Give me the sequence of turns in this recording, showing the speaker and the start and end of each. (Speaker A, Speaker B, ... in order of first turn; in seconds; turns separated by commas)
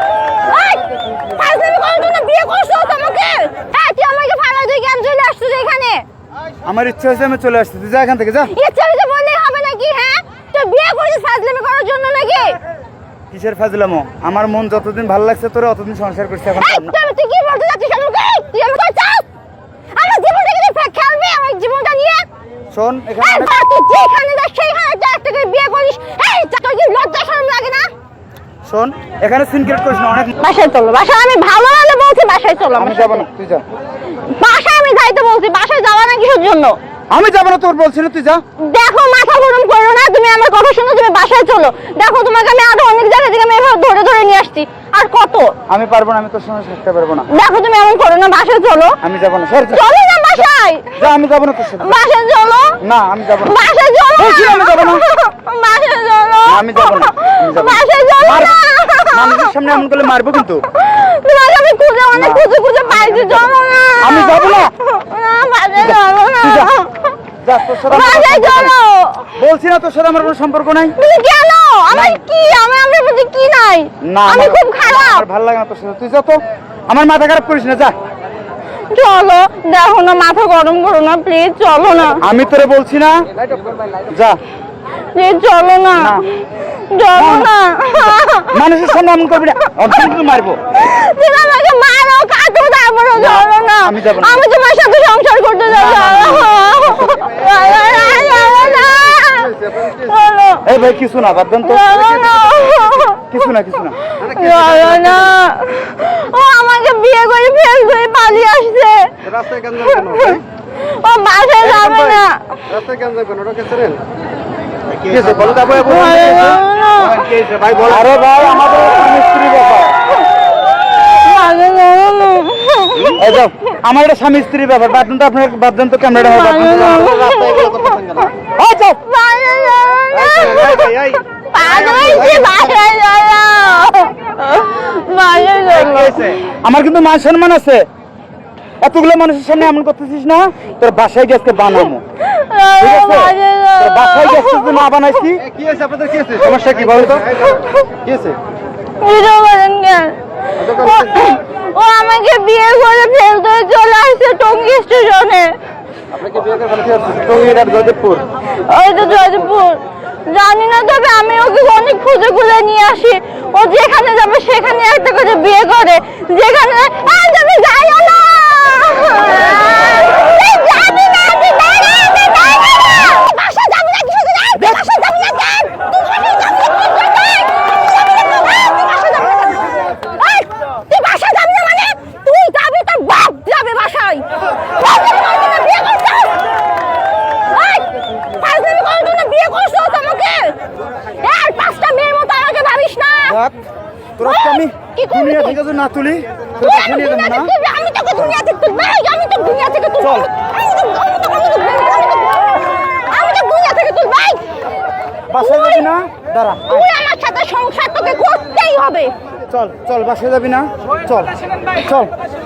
Speaker A: 0.4-6.0, Speaker B: 6.7-8.5, Speaker A: 8.5-12.6, Speaker B: 13.3-16.9, Speaker A: 16.5-19.3, Speaker A: 19.9-22.2, Speaker B: 22.7-23.5, Speaker A: 23.2-27.9, Speaker B: 28.6-30.3, Speaker A: 30.4-33.2, Speaker B: 32.8-33.6, Speaker A: 34.2-36.8, Speaker B: 37.1-38.4, Speaker A: 38.6-45.6, Speaker B: 45.7-47.3, Speaker A: 47.3-49.0, Speaker B: 49.0-52.0, Speaker A: 49.7-51.0, Speaker A: 51.7-52.8, Speaker B: 52.8-53.6, Speaker A: 53.4-59.8, Speaker B: 54.1-55.0, Speaker B: 56.5-58.6, Speaker B: 59.1-60.7, Speaker A: 60.7-67.2, Speaker B: 62.1-64.7, Speaker B: 65.7-66.7, Speaker B: 67.4-68.8, Speaker A: 67.8-69.4, Speaker B: 69.4-71.0, Speaker A: 71.0-75.2, Speaker B: 71.9-72.2, Speaker B: 74.0-77.9, Speaker A: 78.9-82.2, Speaker B: 82.2-83.2, Speaker B: 84.1-84.4, Speaker A: 85.1-88.6, Speaker B: 86.0-86.2, Speaker B: 87.1-90.6, Speaker A: 89.8-90.1, Speaker A: 90.7-100.7, Speaker B: 93.1-94.4, Speaker B: 95.7-96.5, Speaker C: 97.0-100.1, Speaker B: 100.6-101.9, Speaker A: 101.6-103.3, Speaker C: 101.9-102.9, Speaker B: 103.2-104.1, Speaker A: 104.2-109.2, Speaker C: 104.2-105.3, Speaker C: 109.2-110.4, Speaker A: 109.8-112.6, Speaker C: 111.7-114.0, Speaker C: 114.9-118.0, Speaker B: 115.1-116.4, Speaker A: 115.8-117.3, Speaker B: 117.8-120.1, Speaker A: 120.9-123.2, Speaker B: 123.0-127.1, Speaker A: 126.2-128.2, Speaker C: 126.6-128.3, Speaker B: 128.6-129.0, Speaker A: 129.0-136.4, Speaker C: 130.1-132.7, Speaker B: 135.8-137.8, Speaker C: 135.9-136.2, Speaker B: 138.8-142.0, Speaker A: 142.2-144.8, Speaker B: 142.7-145.4, Speaker C: 145.5-148.4, Speaker B: 146.3-147.4, Speaker A: 147.4-147.9, Speaker A: 149.0-155.6, Speaker C: 150.6-151.2, Speaker C: 156.1-157.4, Speaker B: 157.1-158.2, Speaker A: 158.4-186.5, Speaker A: 187.4-193.4, Speaker B: 193.2-193.6, Speaker B: 194.2-197.5, Speaker A: 194.2-195.6, Speaker A: 196.6-204.5, Speaker B: 200.0-200.3, Speaker B: 205.3-206.9, Speaker A: 205.4-205.9, Speaker A: 206.7-209.1, Speaker B: 209.5-212.1